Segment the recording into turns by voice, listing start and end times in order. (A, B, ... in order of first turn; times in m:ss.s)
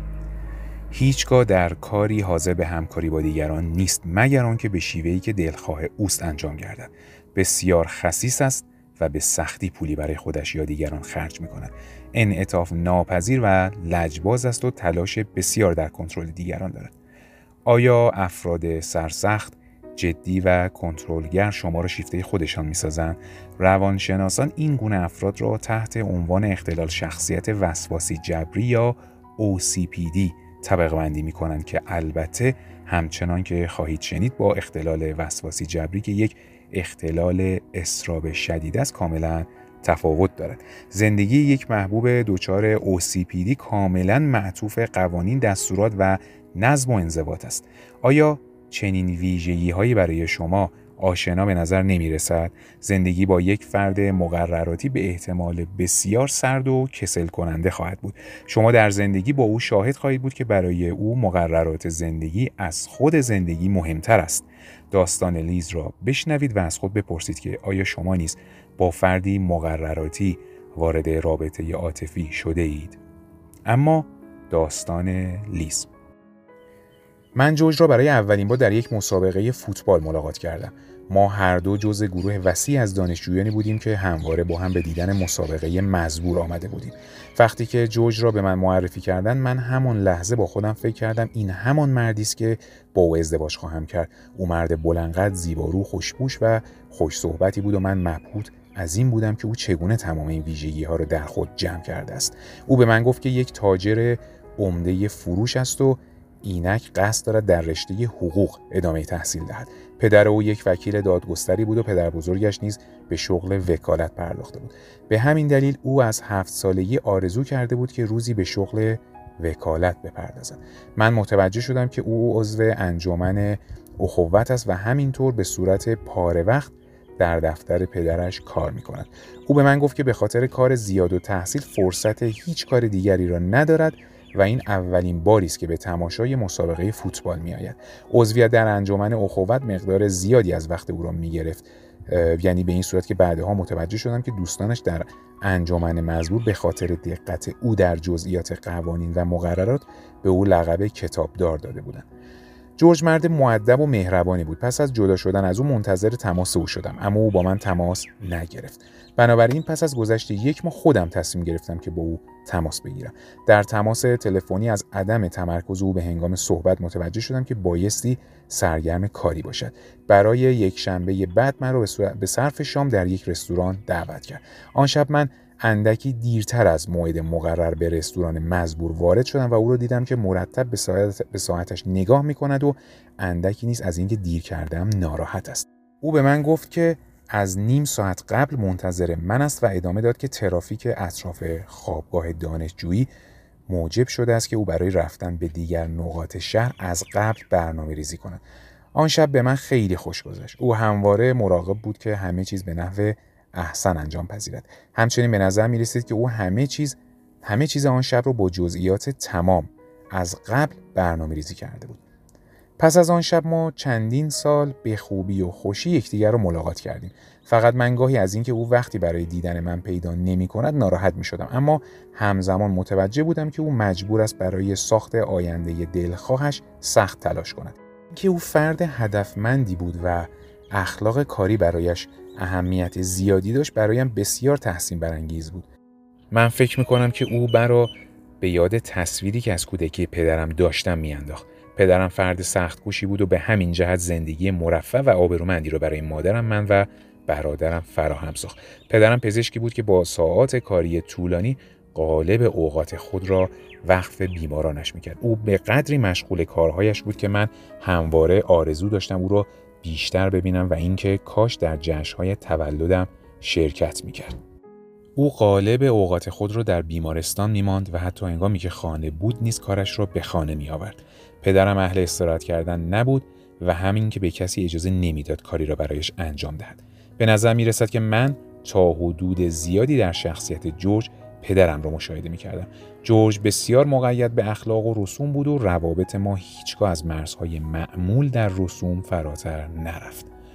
0:00.9-0:16.9 A
0:17.6-1:13.0 A
1:13.6-1:15.9 A
1:17.3-2:32.0 A
2:32.8-3:13.1 A
3:13.7-3:18.4 A
3:18.9-3:32.0 A
3:32.8-3:55.7 A
3:56.3-4:24.3 A
4:25.2-4:50.3 A